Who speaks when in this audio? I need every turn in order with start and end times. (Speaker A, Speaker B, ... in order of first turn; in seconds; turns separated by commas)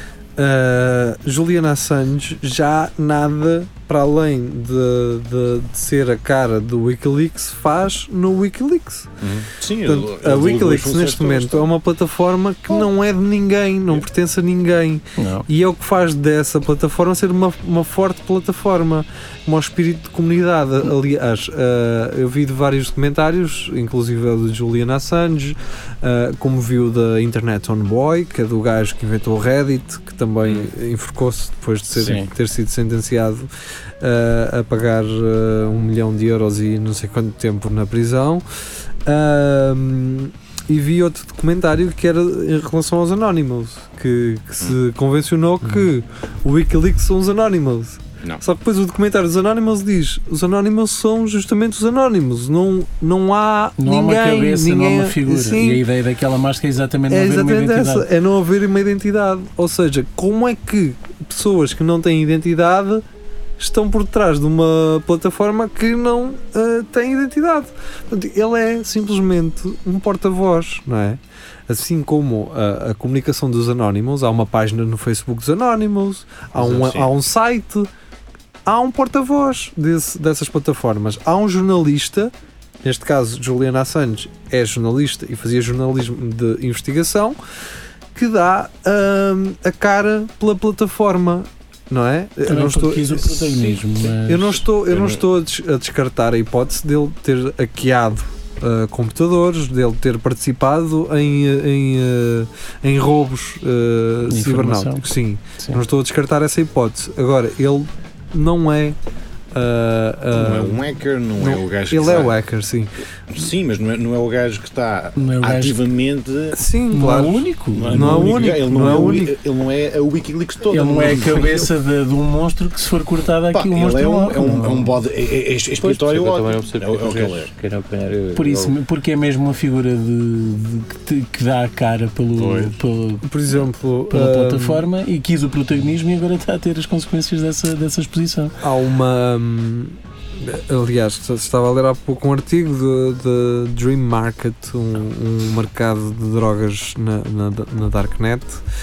Speaker A: 0.4-9.1, Speaker B: 9.2-11.7, Speaker A: 9.8-33.5, Speaker C: 15.2-15.5, Speaker B: 30.4-30.7, Speaker B: 31.9-32.2, Speaker C: 32.0-32.3, Speaker A: 34.0-38.4, Speaker A: 39.0-55.8, Speaker D: 45.6-45.9, Speaker C: 53.8-58.1, Speaker A: 57.1-63.0, Speaker A: 63.6-77.9, Speaker B: 76.5-77.1, Speaker A: 78.7-82.3, Speaker A: 82.8-87.4, Speaker A: 88.1-109.0, Speaker C: 92.5-94.6, Speaker B: 94.9-95.2, Speaker C: 104.3-105.8, Speaker A: 109.5-110.8, Speaker B: 110.3-112.4, Speaker A: 111.4-112.9, Speaker B: 113.3-116.6, Speaker C: 115.2-115.8, Speaker A: 116.5-119.3, Speaker C: 116.9-119.2, Speaker B: 117.7-121.7, Speaker C: 120.7-124.9, Speaker B: 123.5-127.5, Speaker D: 125.8-128.8, Speaker C: 128.3-133.2, Speaker B: 132.3-132.8, Speaker A: 133.2-134.8, Speaker C: 134.1-138.5, Speaker A: 138.6-148.6